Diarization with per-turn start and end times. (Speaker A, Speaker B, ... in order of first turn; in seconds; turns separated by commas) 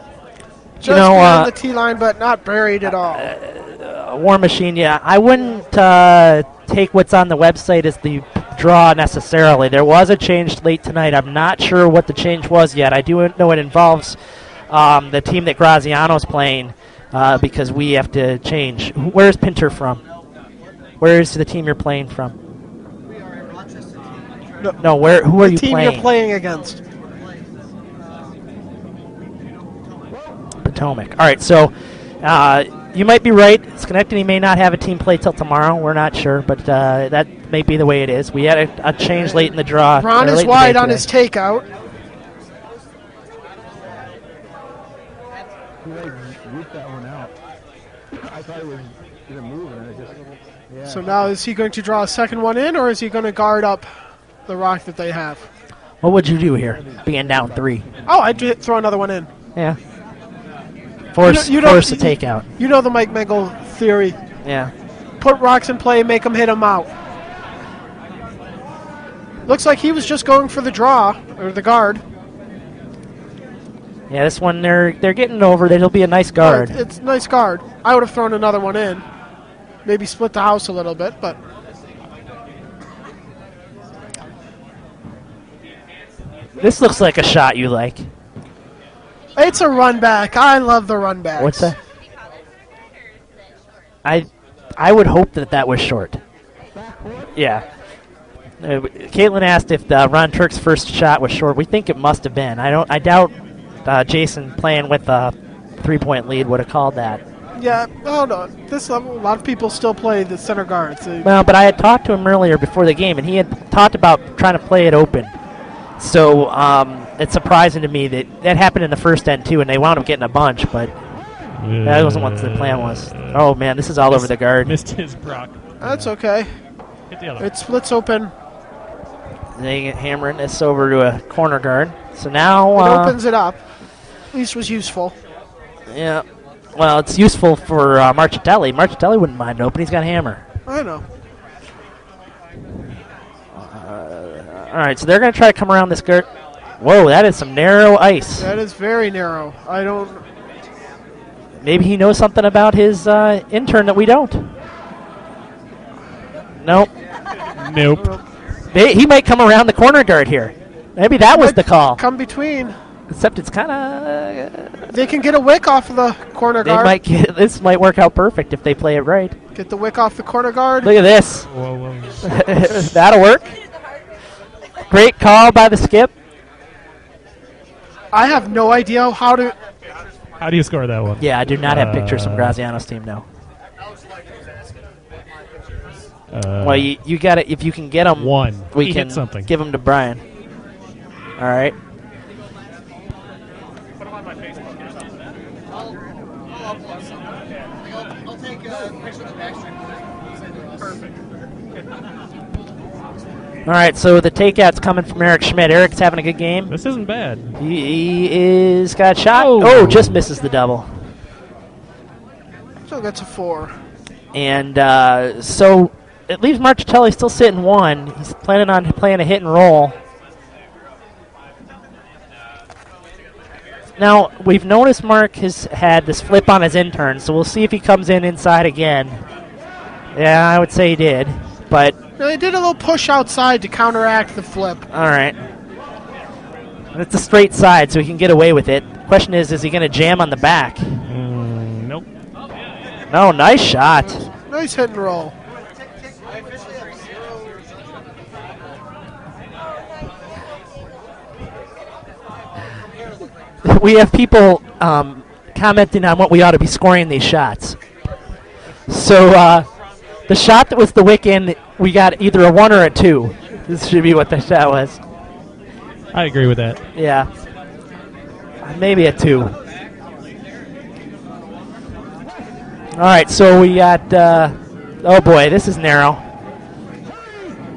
Speaker A: 0.8-3.3, Speaker B: 0.8-1.5, Speaker B: 3.0-14.2, Speaker B: 14.7-20.0, Speaker B: 21.0-22.4, Speaker B: 24.8-26.1, Speaker A: 25.4-26.8, Speaker B: 30.6-41.1, Speaker A: 39.2-41.7, Speaker C: 45.9-47.3, Speaker C: 48.3-50.1, Speaker C: 50.7-51.0, Speaker A: 50.9-53.9, Speaker A: 54.5-55.5, Speaker B: 56.0-57.9, Speaker A: 58.1-59.3, Speaker B: 61.1-62.5, Speaker A: 61.2-64.2, Speaker B: 64.4-64.7, Speaker A: 65.2-66.9, Speaker A: 69.5-72.0, Speaker B: 74.1-76.8, Speaker A: 76.4-79.0, Speaker A: 79.8-81.4, Speaker B: 86.6-88.1, Speaker A: 89.4-91.7, Speaker B: 91.4-91.8, Speaker B: 94.0-96.2, Speaker C: 96.8-97.3, Speaker B: 97.3-97.7, Speaker B: 98.6-103.3, Speaker B: 103.8-107.2, Speaker A: 107.6-111.3, Speaker B: 111.2-115.3, Speaker B: 116.0-120.9, Speaker D: 121.6-123.5, Speaker B: 121.8-124.7, Speaker D: 124.1-126.1, Speaker A: 125.8-126.6, Speaker D: 127.1-127.5, Speaker A: 127.4-128.3, Speaker B: 129.6-133.2, Speaker A: 132.8-133.6, Speaker A: 134.3-135.2, Speaker B: 135.9-136.2, Speaker B: 136.8-140.4, Speaker A: 140.7-141.1, Speaker B: 143.6-146.3, Speaker B: 146.8-148.5, Speaker A: 148.4-150.2, Speaker B: 151.6-154.5, Speaker B: 156.6-156.9, Speaker D: 157.6-158.1, Speaker B: 158.7-162.0, Speaker A: 161.3-162.8, Speaker B: 163.1-164.9, Speaker A: 164.9-167.0, Speaker B: 166.6-169.3, Speaker A: 169.5-170.9, Speaker B: 170.8-171.5, Speaker D: 171.4-172.2, Speaker B: 172.2-173.6, Speaker B: 174.9-176.1, Speaker A: 178.1-179.6, Speaker D: 180.4-182.6, Speaker B: 181.2-183.2, Speaker D: 186.3-186.9, Speaker B: 186.6-190.2, Speaker D: 188.2-189.5, Speaker B: 191.4-191.7, Speaker B: 203.7-206.7, Speaker D: 206.7-207.6, Speaker B: 207.6-210.9, Speaker D: 209.3-210.2, Speaker A: 212.9-213.7, Speaker B: 214.3-220.0, Speaker B: 224.0-229.2, Speaker B: 230.1-231.9, Speaker A: 232.2-234.8, Speaker B: 234.9-235.4, Speaker B: 236.9-241.0, Speaker D: 241.0-242.1, Speaker B: 243.1-244.3, Speaker A: 244.5-245.3, Speaker B: 253.6-257.8, Speaker B: 258.9-259.7, Speaker B: 260.3-265.0, Speaker D: 266.1-266.8, Speaker B: 266.9-267.3, Speaker B: 268.6-269.6, Speaker B: 272.9-276.2